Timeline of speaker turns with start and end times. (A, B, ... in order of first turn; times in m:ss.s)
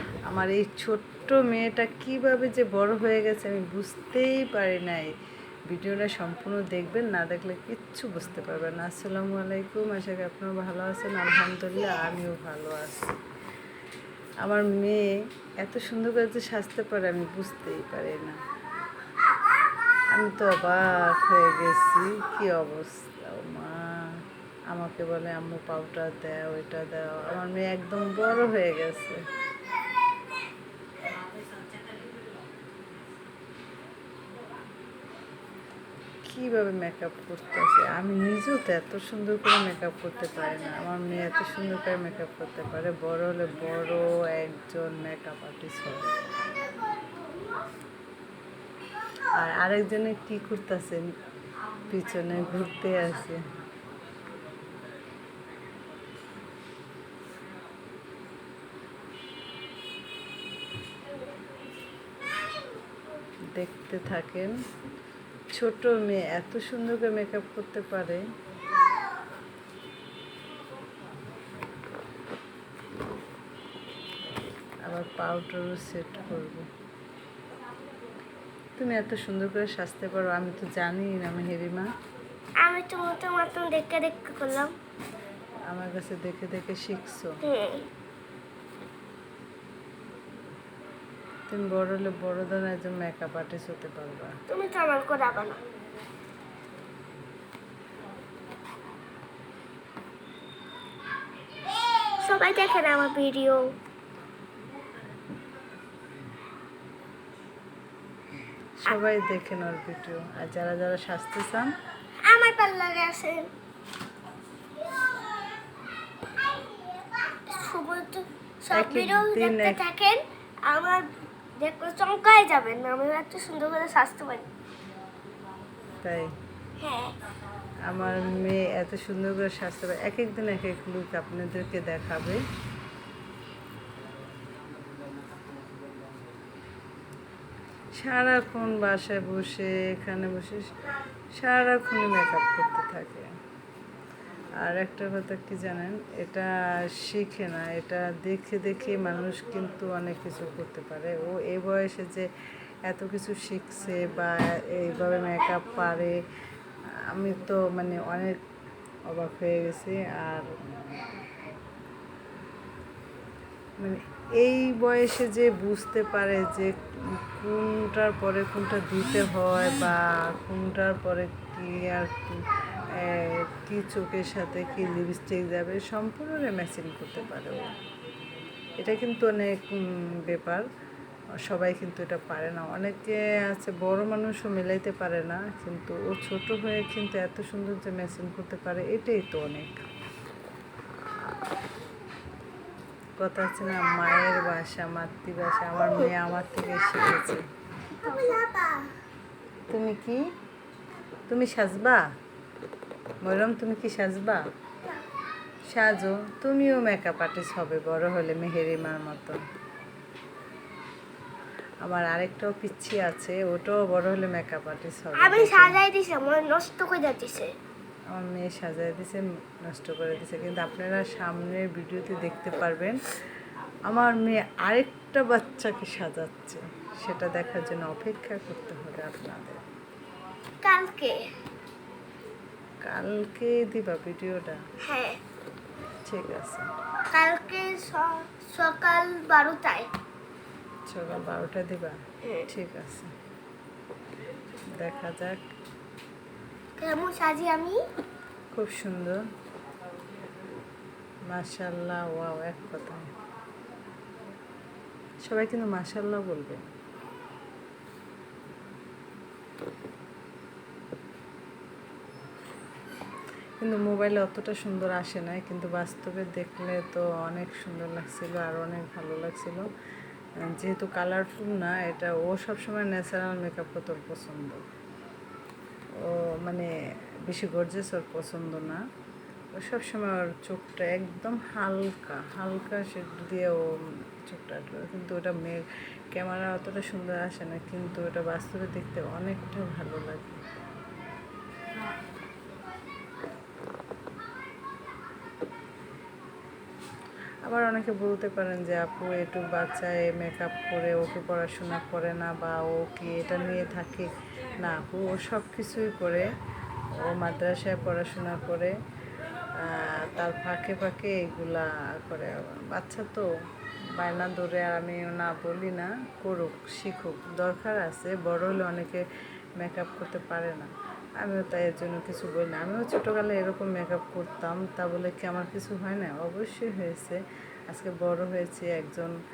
0:00.3-0:05.1 A
0:05.7-0:13.1 A
0:14.4-0:15.1 A
0:15.6-0:18.4 A
0:20.1-0:29.2 A
0:36.3-0:46.1 A
0:49.3-0:51.1 A
0:51.9-0:53.4 A
1:03.6-1:04.6 A
1:05.5-1:08.2 A
1:14.8-1:16.7 A
1:18.8-1:21.9 A
1:22.6-1:24.7 B
1:25.7-1:27.4 A
1:27.4-1:27.9 B
1:31.5-1:34.3 A
1:34.5-1:35.6 B
1:42.2-1:43.7 B
1:48.8-1:51.7 A
1:52.3-1:53.5 B
1:57.4-2:04.5 B
1:58.7-1:59.8 A
2:06.0-2:06.4 A
2:06.8-2:07.2 B
2:07.9-2:12.4 A
2:18.0-2:20.8 A
2:21.4-2:23.3 A
2:24.6-2:32.3 A
2:32.9-2:36.2 A
2:37.1-2:38.4 A
2:39.1-2:40.5 A
2:43.8-2:57.7 A
2:58.8-3:00.7 A
3:01.4-3:09.8 A
3:13.2-3:17.4 A
3:17.9-3:18.9 B
3:19.7-3:20.2 A
3:21.3-3:22.0 A
3:23.2-3:24.4 A
3:25.7-3:29.4 A
3:31.8-3:35.8 A
3:35.2-3:37.5 B
3:38.1-3:43.0 A
3:43.9-3:49.6 A
3:50.6-3:51.2 B
3:52.8-3:54.6 A
3:54.8-3:55.2 B
3:56.1-3:56.7 A
3:57.1-3:59.9 B
4:00.9-4:03.1 A
4:04.7-4:05.4 A
4:06.8-4:07.8 B
4:08.5-4:09.2 A
4:11.3-4:13.1 A
4:15.2-4:16.7 A
4:23.6-4:29.7 A
4:30.4-4:34.6 A
4:36.0-4:36.7 A
4:37.3-4:38.8 A
4:39.6-4:50.4 A
4:57.5-5:06.3 A
5:06.9-5:08.8 A
5:09.6-5:13.3 A
5:13.9-5:19.0 A
5:19.6-5:27.2 A
5:27.7-5:29.2 A